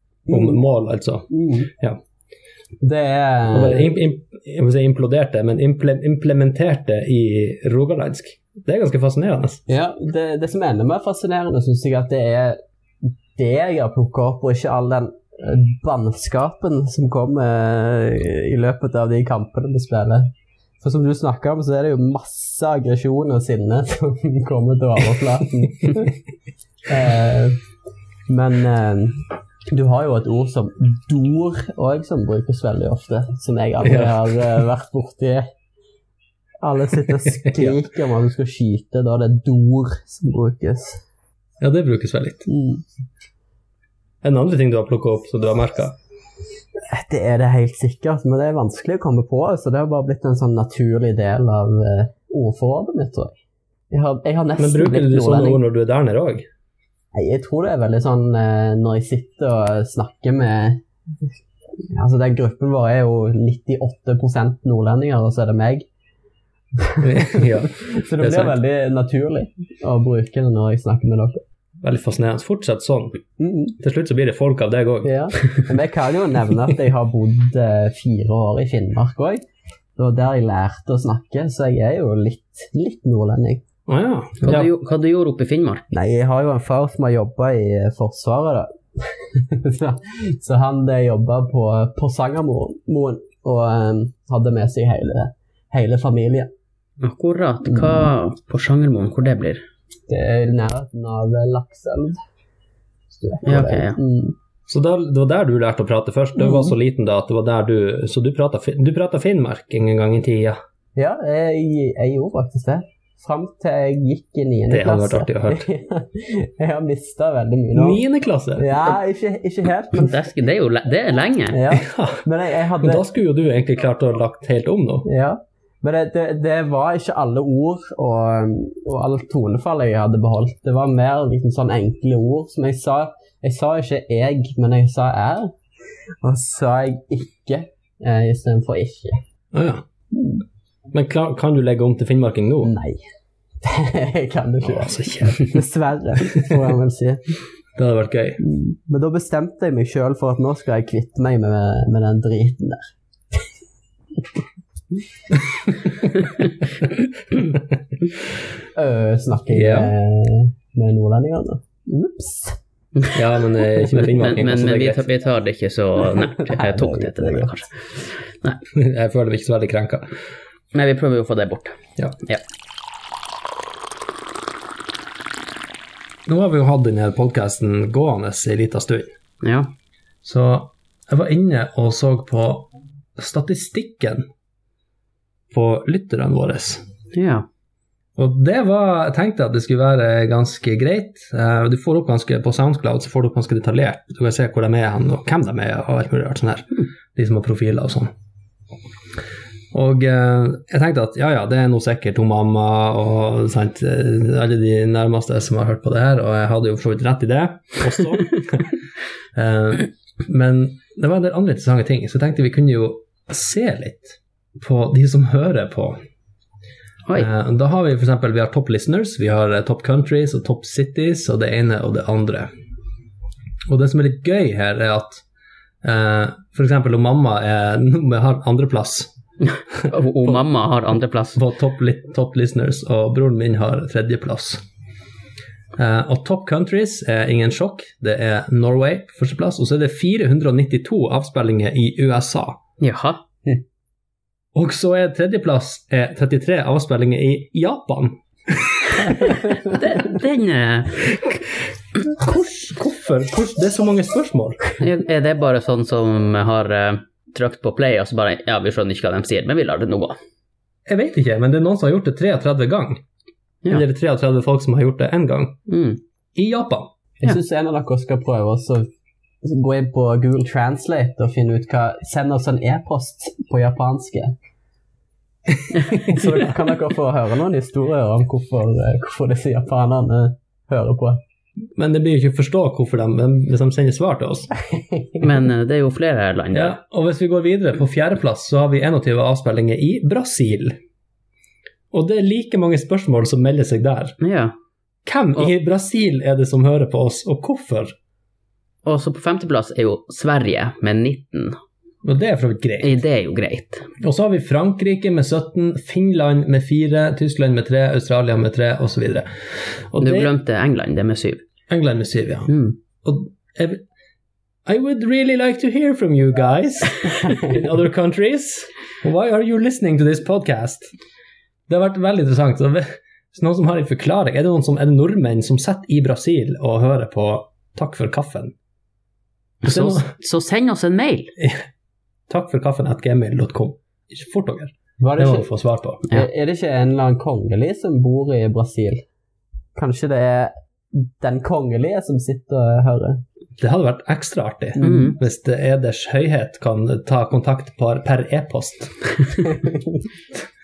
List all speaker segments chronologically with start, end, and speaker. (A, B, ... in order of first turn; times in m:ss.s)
0:00.3-0:00.6 A
0:00.3-0:02.0 B
0:01.3-0:01.7 A
0:02.8-0:03.9 A
0:03.5-0:09.6 B
0:09.7-0:26.2 A
0:26.9-0:27.6 A
0:28.3-0:35.5 A
0:33.8-0:34.4 B
0:36.6-0:41.0 A
0:37.3-0:37.8 B
0:41.6-0:42.5 B
0:42.5-0:42.8 A
0:44.2-0:46.0 B
0:46.8-0:53.4 A
0:53.9-0:55.6 A
0:54.6-0:56.5 B
0:57.1-1:05.9 A
1:06.8-1:11.4 A
1:07.0-1:08.6 B
1:11.8-1:13.2 B
1:13.4-1:13.8 A
1:13.8-1:15.6 B
1:15.0-1:19.4 A
1:20.0-1:23.6 A
1:23.9-1:24.7 B
1:24.4-1:25.9 C
1:25.9-1:36.5 A
1:37.0-1:39.6 C
1:37.7-1:38.1 A
1:40.1-1:42.2 A
1:43.1-1:44.4 A
1:43.4-1:44.0 C
1:44.7-1:50.6 B
1:46.4-1:46.8 A
1:51.0-1:58.0 A
1:54.7-1:55.7 B
1:57.7-1:58.8 B
1:58.6-2:00.2 A
1:59.9-2:01.6 C
2:01.5-2:03.0 A
2:01.7-2:02.2 B
2:02.8-2:05.1 B
2:05.0-2:15.6 A
2:16.2-2:19.2 A
2:19.5-2:19.8 B
2:20.9-2:22.7 B
2:22.6-2:23.1 A
2:23.6-2:27.2 A
2:24.6-2:25.6 B
2:26.3-2:26.6 B
2:27.8-2:28.4 B
2:28.4-2:33.5 A
2:38.8-2:42.6 A
2:39.5-2:39.9 B
2:43.1-2:45.1 B
2:44.0-2:48.6 C
2:46.4-2:47.5 A
2:48.7-2:50.1 B
2:50.7-2:52.4 C
2:56.3-2:59.1 B
2:59.4-2:59.7 C
3:00.2-3:04.2 B
3:05.5-3:06.8 B
3:07.1-3:07.5 C
3:08.2-3:18.1 B
3:19.7-3:28.8 B
3:29.4-3:36.0 B
3:37.2-3:42.5 B
3:43.7-3:45.2 B
3:45.8-3:49.1 B
3:49.5-3:51.4 C
3:49.8-3:50.4 B
3:51.4-3:54.6 B
3:55.8-4:02.6 B
4:02.8-4:03.2 C
4:04.6-4:09.5 B
4:09.6-4:11.0 C
4:12.0-4:14.8 B
4:14.8-4:20.2 C
4:20.9-4:23.0 B
4:23.7-4:25.6 B
4:25.7-4:26.0 C
4:26.4-4:26.9 B
4:27.2-4:28.9 A
4:29.4-4:34.4 A
4:35.9-4:41.2 A
4:35.9-4:36.4 B
4:41.8-4:44.5 B
4:45.2-4:46.8 C
4:46.5-4:50.8 B
4:51.9-4:54.2 B
4:54.2-4:54.6 C
4:55.1-4:58.0 B
4:58.8-5:01.6 C
5:02.0-5:03.0 B
5:02.8-5:03.9 C
5:04.0-5:10.3 B
5:10.0-5:11.4 C
5:11.7-5:12.5 B
5:12.5-5:12.8 C
5:13.0-5:13.8 B
5:14.7-5:20.9 B
5:21.7-5:28.5 B
5:29.6-5:31.3 C
5:29.6-5:30.1 B
5:31.4-5:31.6 B
5:32.3-5:36.0 B
5:35.0-5:35.5 A
5:36.1-5:39.0 A
5:39.8-5:43.2 A
5:43.6-5:49.5 B
5:44.8-5:45.1 A
5:44.8-5:45.2 C